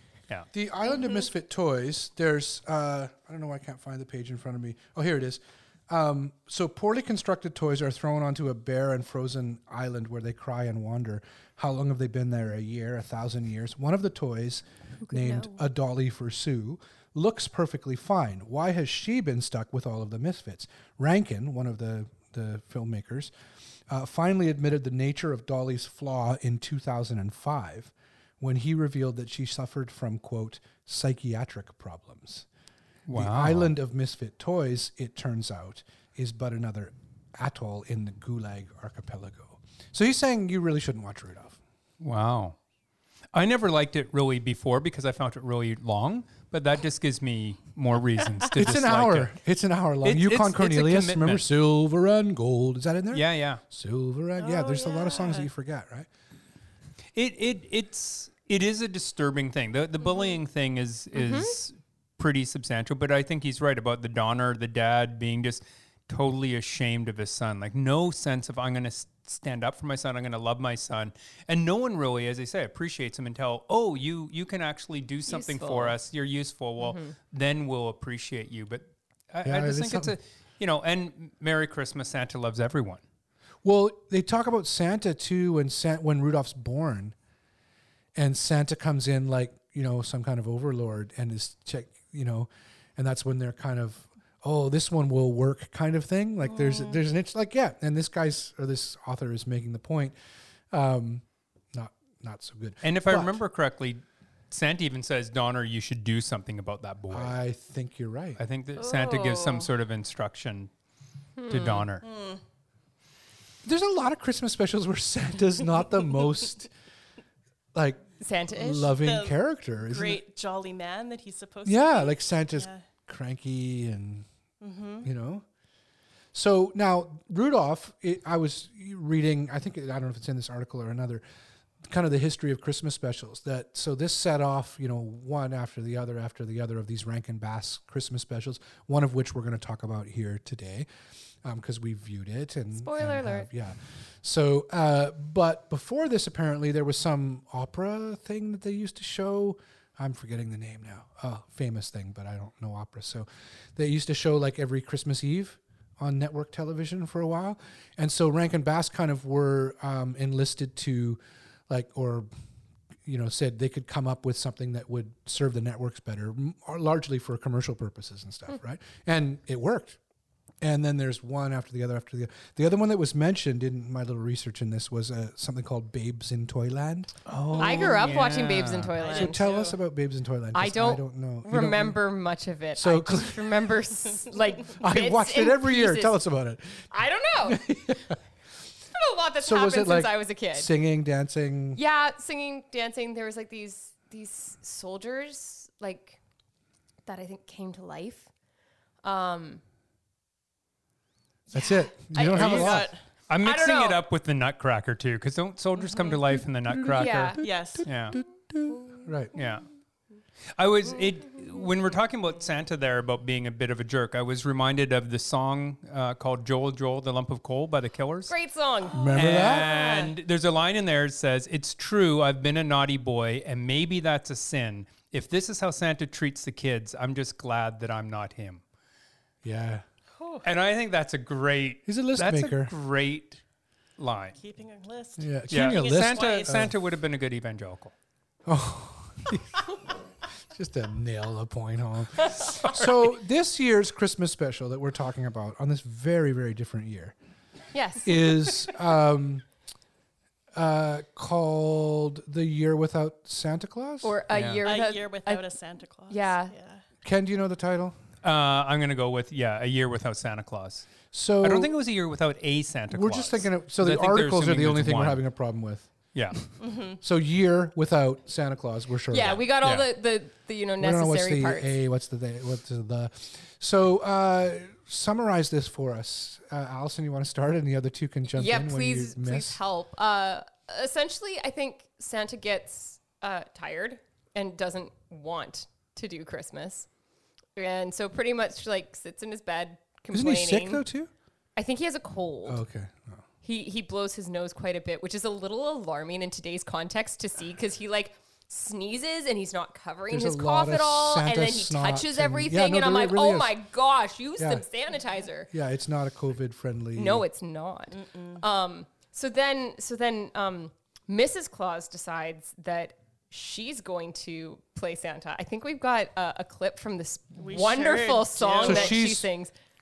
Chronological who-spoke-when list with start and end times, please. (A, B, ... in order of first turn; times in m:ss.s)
0:00.5-0:23.3 A
0:15.0-0:15.6 B
0:23.9-0:32.5 A
0:33.1-0:33.7 C
0:33.1-0:41.6 A
0:42.0-0:42.6 C
0:43.3-0:49.3 C
0:48.5-0:56.1 A
0:50.0-0:51.5 C
0:53.1-0:53.6 C
0:54.4-0:55.5 D
0:57.2-1:23.0 C
1:00.0-1:00.4 D
1:01.1-1:01.5 B
1:15.3-1:16.0 B
1:16.8-1:17.1 B
1:19.4-1:20.1 A
1:23.6-1:27.2 A
1:28.2-1:40.2 A
1:36.4-1:37.0 D
1:40.7-1:43.4 A
1:42.8-1:47.4 C
1:47.1-1:48.4 A
1:48.4-1:50.7 C
1:48.8-1:49.7 B
1:51.4-1:51.9 B
1:51.5-1:52.1 C
1:52.0-1:52.4 D
1:53.6-1:56.7 A
1:57.7-2:00.2 A
1:58.2-1:59.0 B
1:59.0-2:02.8 D
2:01.6-2:04.3 A
2:04.6-2:05.1 D
2:05.0-2:05.4 A
2:06.3-2:11.2 A
2:11.8-2:20.9 A
2:21.4-2:42.3 A
2:22.7-2:23.5 B
2:43.0-2:50.0 A
2:50.6-2:57.1 A
2:57.3-2:58.9 C
2:57.5-2:57.9 D
2:57.6-2:59.5 B
2:59.0-2:59.8 D
2:59.1-3:02.0 A
3:00.5-3:06.2 B
3:02.8-3:03.7 A
3:04.8-3:06.9 A
3:06.9-3:07.7 B
3:07.4-3:08.2 A
3:08.9-3:10.7 B
3:09.4-3:11.8 A
3:11.8-3:16.2 B
3:17.1-3:18.3 B
3:19.0-3:19.6 B
3:21.5-3:22.5 B
3:21.5-3:22.9 A
3:22.2-3:23.0 D
3:22.4-3:28.2 C
3:23.4-3:24.0 B
3:25.9-3:26.2 D
3:26.7-3:29.3 A
3:27.0-3:27.4 B
3:27.4-3:27.9 D
3:29.3-3:29.7 C
3:30.6-3:38.3 C
3:38.3-3:40.0 B
3:38.9-3:39.7 A
3:39.2-3:48.6 C
3:49.4-3:49.8 A
3:50.2-3:50.5 D
3:50.4-3:53.4 C
3:51.9-3:52.7 A
3:54.0-3:54.4 C
3:54.4-3:56.7 D
3:55.2-3:56.7 A
3:55.5-3:57.9 C
3:58.5-3:59.6 A
4:00.5-4:07.2 A
4:07.7-4:08.7 B
4:08.0-4:09.4 A
4:10.6-4:14.1 A
4:14.0-4:15.5 B
4:14.3-4:14.6 C
4:14.6-4:16.8 D
4:16.1-4:16.5 B
4:17.0-4:18.0 A
4:18.2-4:25.2 C
4:21.1-4:21.7 A
4:22.9-4:25.9 A
4:26.1-4:26.4 C
4:26.6-4:27.0 D
4:27.0-4:29.4 A
4:29.1-4:31.7 B
4:29.6-4:29.9 C
4:30.8-4:39.6 A
4:38.3-4:46.9 B
4:47.6-4:50.8 B
4:50.1-4:51.1 A
4:51.6-4:52.6 B
4:52.5-4:53.2 A
4:53.4-5:05.5 B
5:00.1-5:03.6 A
5:04.4-5:04.6 A
5:05.5-5:07.2 A
5:07.0-5:19.5 B
5:07.9-5:08.4 D
5:17.4-5:19.0 D
5:18.6-5:19.3 A